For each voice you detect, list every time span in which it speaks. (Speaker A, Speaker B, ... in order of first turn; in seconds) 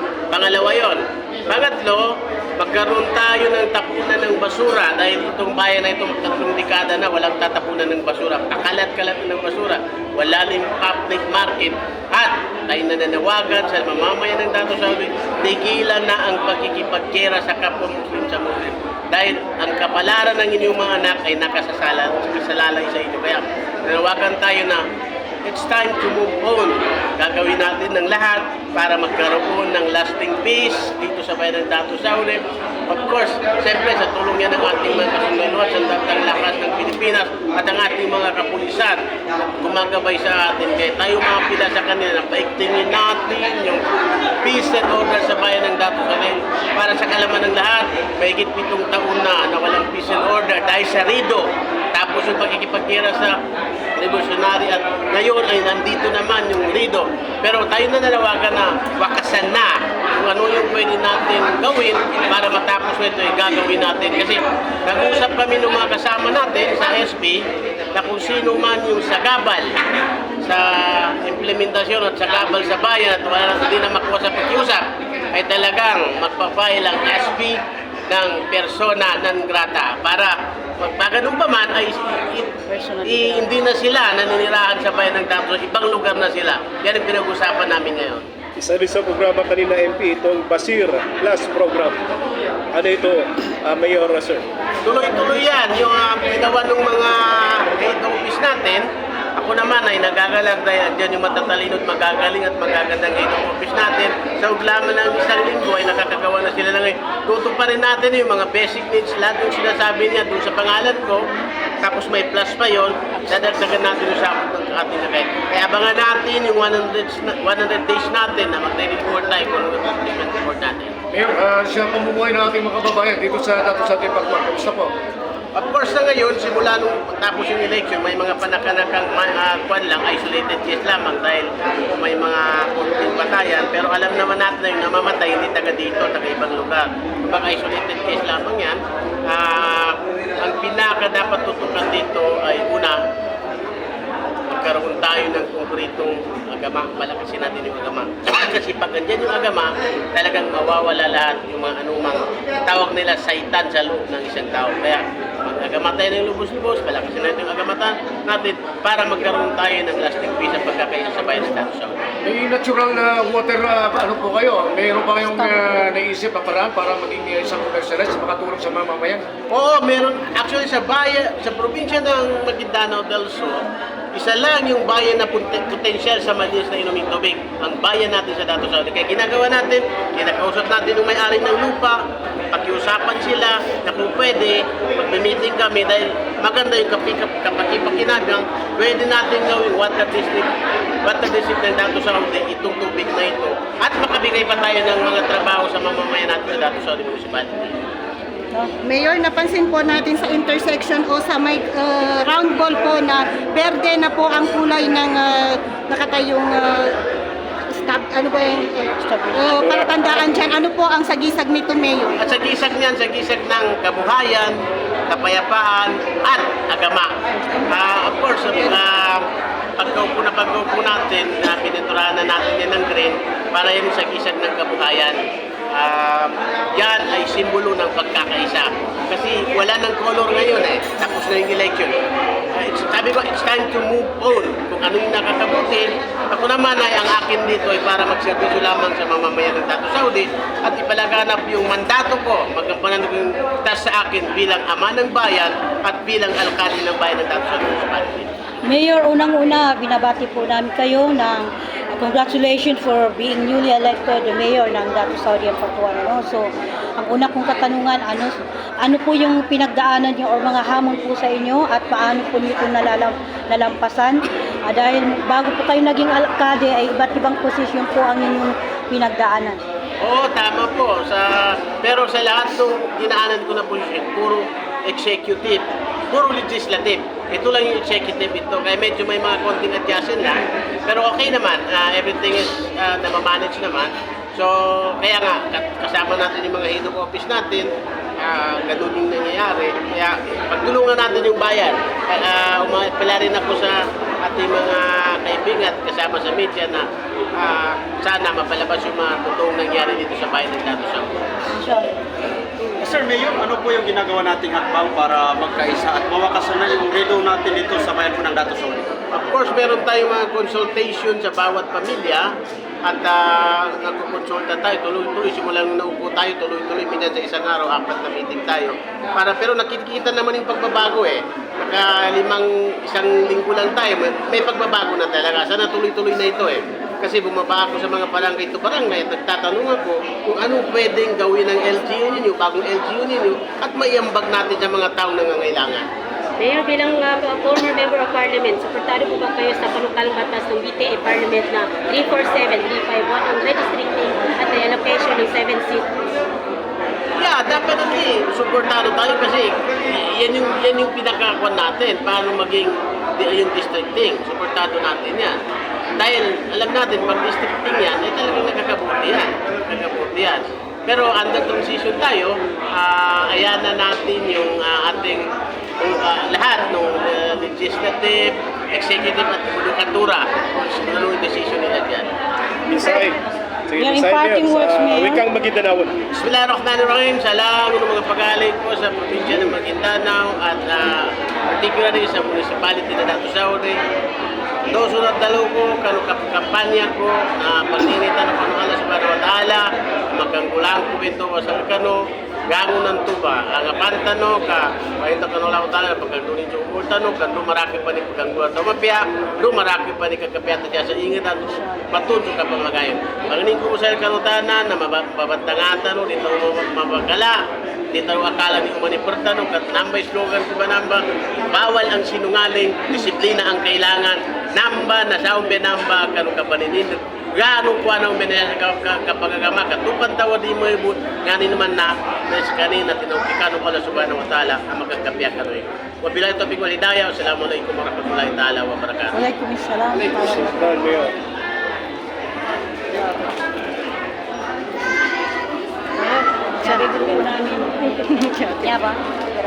Speaker A: 0.3-24.8, 25.4-39.0, 39.6-43.8, 44.4-53.4, 54.0-69.8, 70.4-88.2, 94.8-98.8, 99.3-111.2, 111.8-120.9, 125.5-143.0, 144.5-162.0, 169.5-190.5, 191.0-197.8, 212.2-214.6, 215.1-217.1, 217.7-219.2, 219.8-225.2, 225.7-232.0, 232.6-248.5, 270.0-287.7, 288.2-296.8, 297.4-301.2, 309.1-312.3, 312.8-335.8, 347.2-355.4, 356.0-365.3, 365.8-372.1, 376.1-383.8, 384.7-407.4, 407.9-429.2
Speaker B: 82.7-83.5, 209.0-209.4, 248.7-269.6, 301.6-301.9, 372.8-373.1, 373.8-375.2, 429.1-430.6, 436.0-439.0
Speaker C: 88.6-92.0, 92.7-94.4, 209.5-209.9, 372.7-373.2, 373.7-375.9, 430.2-431.1
Speaker D: 121.1-124.9, 162.2-169.2
Speaker E: 198.8-206.9, 207.7-212.2
Speaker F: 302.8-308.9
Speaker G: 336.4-345.9